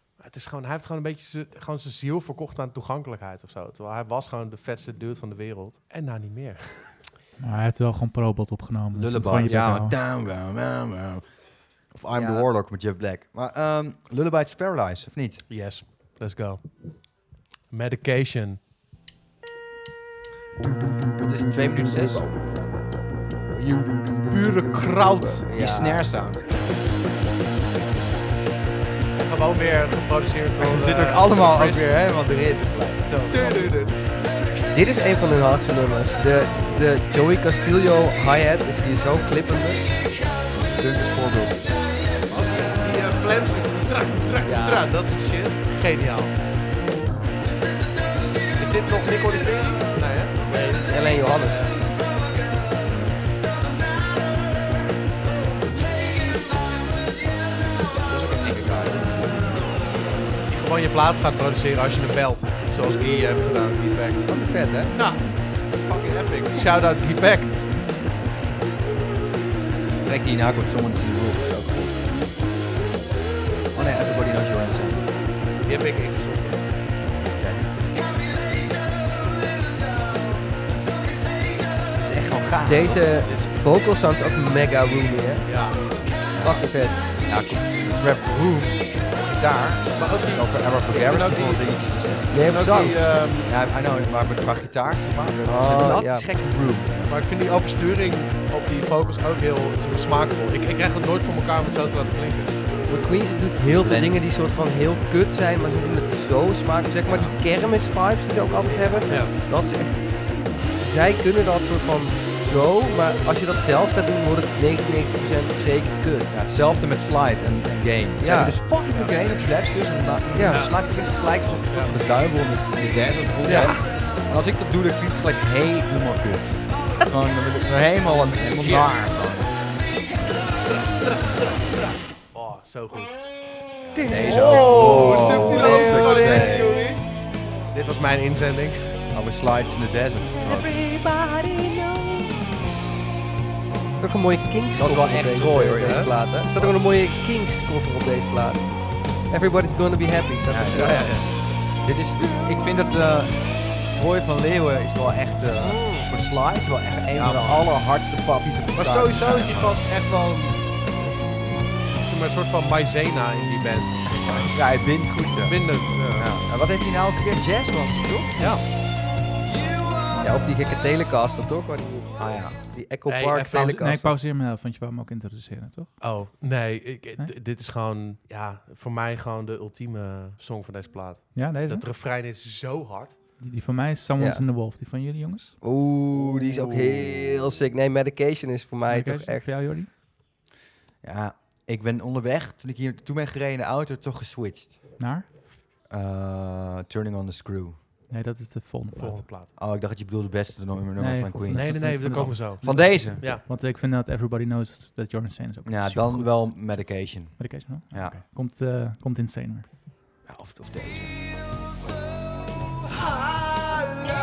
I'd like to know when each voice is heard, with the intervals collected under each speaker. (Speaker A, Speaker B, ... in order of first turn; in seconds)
Speaker A: 0.2-7.0, 15.5-17.1, 17.7-18.6, 24.3-25.5, 29.2-31.9, 33.3-34.0, 42.3-46.4, 48.6-51.9, 60.5-64.3, 64.9-67.6, 75.7-76.7, 85.5-85.8, 89.9-93.6, 97.1-102.8, 109.1-109.3, 118.9-119.6, 120.5-122.0, 123.5-123.8, 128.4-128.9, 131.1-131.5, 132.3-133.2, 134.1-137.0, 137.7-139.0, 145.8-146.8, 150.7-151.3, 155.6-156.1, 157.1-157.6, 158.8-160.6, 162.0-164.7, 165.3-166.3, 168.4-168.7, 173.1-173.8, 176.0-183.2, 186.2-186.9, 198.9-199.5, 201.5-203.5
Speaker B: 7.4-9.9, 173.5-175.9, 181.3-181.9, 183.4-185.6, 188.9-189.9, 195.0-195.3, 198.1-199.3, 201.0-206.8, 207.4-209.7
Speaker C: 8.9-11.2, 11.9-15.5, 21.2-22.3, 25.5-26.4, 30.6-33.8, 40.7-41.8, 58.1-59.1, 70.0-72.1, 73.7-75.9, 77.3-78.3, 82.0-83.3, 86.3-92.3, 93.5-97.2, 103.6-104.3, 107.1-107.4, 108.7-109.3, 116.3-129.5, 134.0-136.8, 139.1-140.7, 144.8-146.1, 150.5-151.2, 151.8-159.8, 164.3-168.5, 172.2-172.6, 191.0-194.9, 195.9-197.8, 199.6-202.0, 202.6-203.4, 205.7-208.2, 210.3-211.2
Speaker D: 12.1-12.5, 23.6-24.4, 25.3-26.1, 34.7-39.8, 44.4-44.9, 50.5-51.7, 64.3-64.9, 82.7-85.5, 86.4-87.0, 92.3-93.0, 95.4-96.3, 102.9-110.1, 110.8-116.4, 118.2-118.6, 120.3-120.7, 133.9-136.9, 140.4-142.4, 143.9-151.1, 170.2-174.2, 184.2-184.4, 185.6-189.5